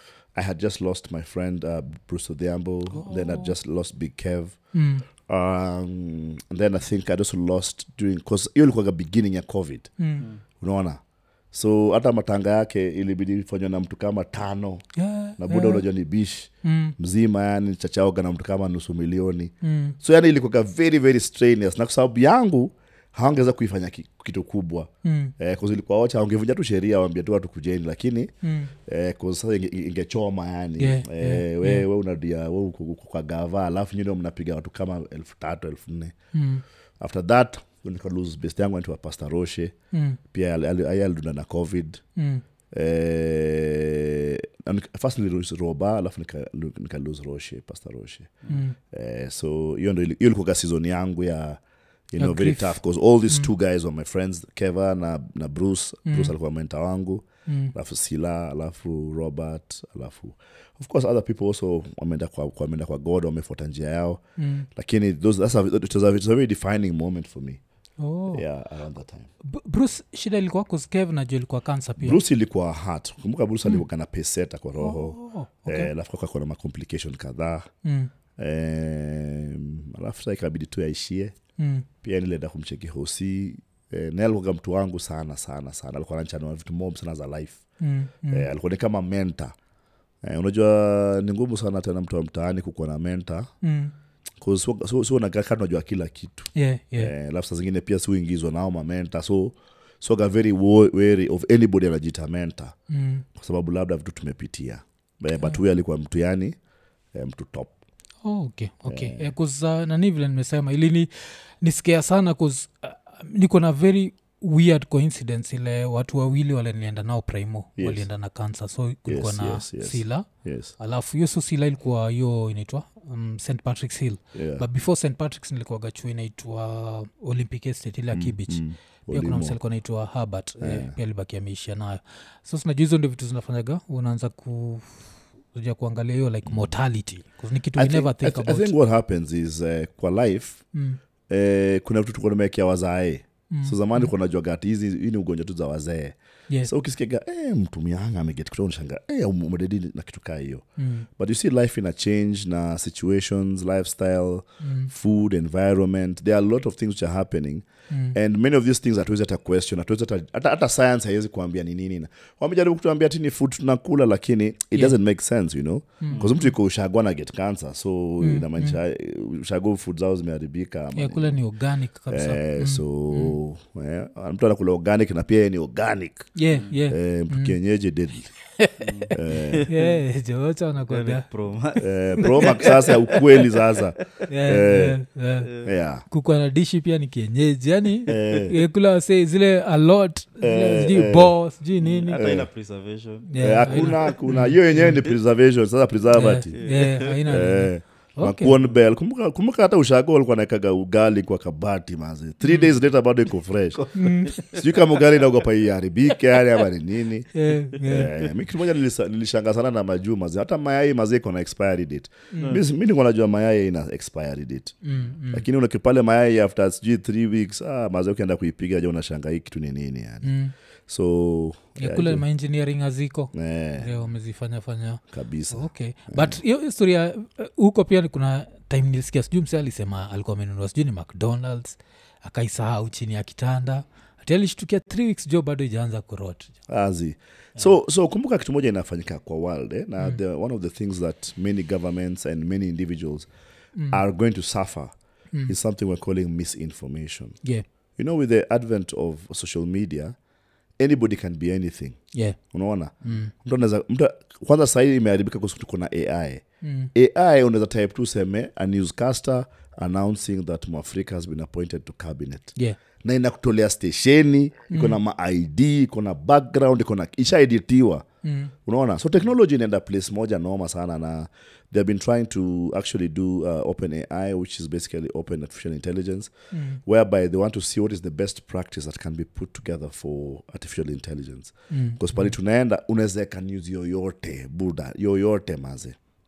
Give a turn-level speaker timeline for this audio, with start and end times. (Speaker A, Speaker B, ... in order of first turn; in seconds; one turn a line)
Speaker A: 0.3-4.6
Speaker B: 2.9-3.5
Speaker B: 4.7-5.0
Speaker A: 5.3-9.9
Speaker B: 10.0-10.3
Speaker A: 10.6-11.0
Speaker A: 11.5-14.8
Speaker B: 15.0-15.8
Speaker A: 15.4-28.3
Speaker B: 16.6-17.0
Speaker B: 19.6-20.0
Speaker B: 25.0-25.3
Speaker B: 28.4-28.7
Speaker A: 28.9-36.1
Speaker B: 30.8-31.9
Speaker B: 36.3-36.6
Speaker A: 37.0-39.8
Speaker B: 39.9-40.2
Speaker A: 40.3-42.0
Speaker B: 42.2-42.4
Speaker A: 42.7-48.4
Speaker B: 48.5-48.8
Speaker A: 48.9-51.6
Speaker A: 52.1-64.2
Speaker B: 52.2-52.8
Speaker B: 56.1-56.3
Speaker B: 57.5-57.7
Speaker B: 64.4-64.7
Speaker A: 64.8-67.6
Speaker B: 68.0-68.4
Speaker A: 68.3-69.3
Speaker B: 69.5-72.2
Speaker A: 72.0-77.7
Speaker B: 74.8-75.9
Speaker B: 77.8-78.1
Speaker A: 78.4-81.4
Speaker B: 81.6-81.9
Speaker A: 82.0-87.6
Speaker B: 87.8-88.5
Speaker A: 88.3-89.5
Speaker A: 90.2-93.5
Speaker B: 93.6-93.9
Speaker A: 94.4-102.7
Speaker B: 96.5-97.1
Speaker B: 102.9-103.2
Speaker A: 103.3-106.6
Speaker A: 107.1-107.8
Speaker B: 108.2-120.3
Speaker A: 108.9-109.3
Speaker A: 117.8-118.1
Speaker A: 119.1-120.8
Speaker B: 120.8-135.0
Speaker A: 124.3-124.7
Speaker A: 128.1-129.6
Speaker A: 130.6-130.9
Speaker B: 135.5-138.7
Speaker A: 137.8-140.6
Speaker B: 140.7-141.0
Speaker A: 141.3-150.7
Speaker B: 143.5-144.1
Speaker B: 150.8-151.1
Speaker A: 151.2-171.4
Speaker B: 154.6-154.9
Speaker B: 157.9-158.2
Speaker B: 166.0-166.5
Speaker B: 168.2-168.8
Speaker B: 171.0-173.4
Speaker A: 172.1-176.3
Speaker B: 176.4-177.6
Speaker C: 176.5-176.9
Speaker A: 176.9-178.3
Speaker B: 178.6-181.3
Speaker C: 178.8-180.0
Speaker A: 179.1-179.7
Speaker C: 180.9-183.5
Speaker A: 181.8-185.0
Speaker B: 182.2-182.9
Speaker B: 184.3-192.3
Speaker C: 185.4-185.7
Speaker A: 185.6-186.1
Speaker A: 188.1-188.6
Speaker A: 190.4-191.4
Speaker C: 191.8-194.2
Speaker A: 192.1-192.5
Speaker B: 193.3-195.0
Speaker A: 193.4-196.6
Speaker B: 196.1-198.6
Speaker C: 196.5-197.3
Speaker A: 197.2-214.8
Speaker B: 202.4-202.7
Speaker C: 203.8-204.7
Speaker B: 203.9-204.4
Speaker B: 207.3-208.2
Speaker B: 212.3-212.6
Speaker C: 212.4-212.6
Speaker B: 214.8-215.5
Speaker A: 215.3-220.3
Speaker B: 220.2-220.5
Speaker A: 220.9-222.2
Speaker B: 221.8-236.5
Speaker A: 223.3-224.0
Speaker A: 225.1-226.4
Speaker A: 236.7-243.3
Speaker B: 243.8-244.0
Speaker A: 243.9-244.9
Speaker A: 245.5-247.4
Speaker A: 248.0-250.2
Speaker A: 250.8-252.0
Speaker B: 252.1-252.4
Speaker A: 252.5-256.4
Speaker B: 253.1-253.3
Speaker B: 256.6-256.9
Speaker A: 256.9-268.1
Speaker B: 264.7-265.0
Speaker B: 268.2-268.5
Speaker A: 268.6-276.3
Speaker B: 276.5-276.8
Speaker A: 276.9-286.0
Speaker B: 281.7-282.3